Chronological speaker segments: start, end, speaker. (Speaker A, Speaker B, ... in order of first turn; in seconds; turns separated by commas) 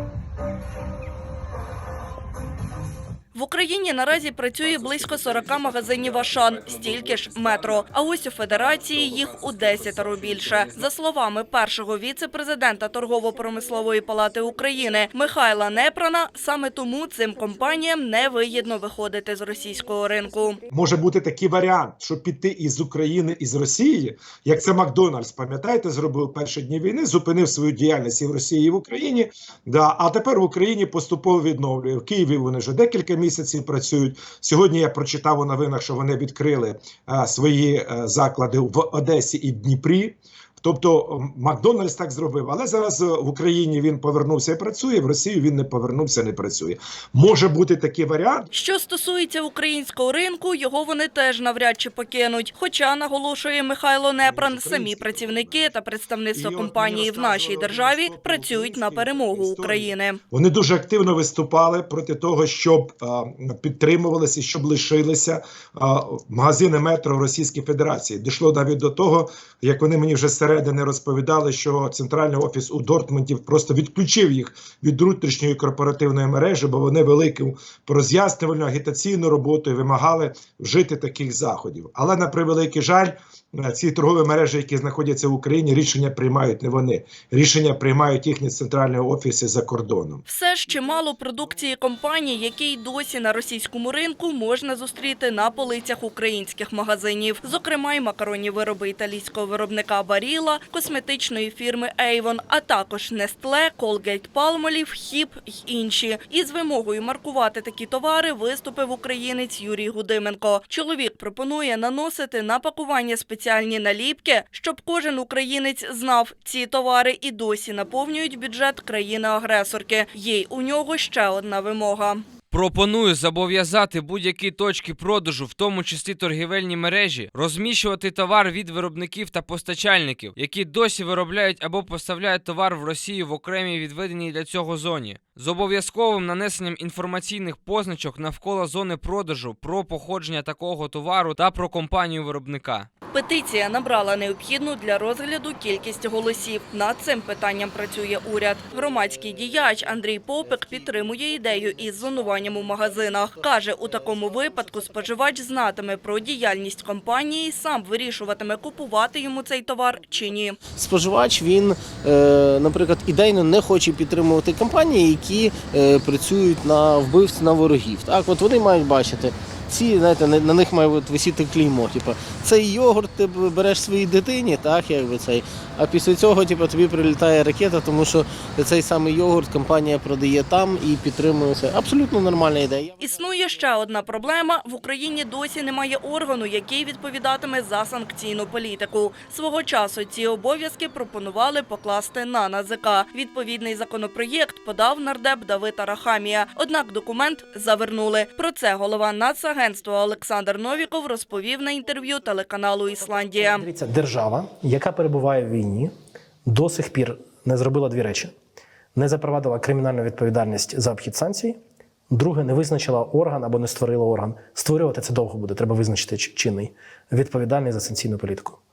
Speaker A: 3.3-20.6, Speaker B: 20.7-48.5, Speaker A: 48.5-60.2, Speaker B: 54.2-55.7, Speaker B: 56.3-90.2, Speaker A: 90.3-122.2, Speaker C: 122.5-142.9, Speaker A: 143.1-160.6, Speaker D: 148.7-155.3, Speaker D: 160.7-183.2, Speaker A: 183.0-203.7, Speaker E: 203.5-205.9, Speaker E: 206.5-208.3, Speaker E: 208.9-211.6, Speaker E: 212.1-218.6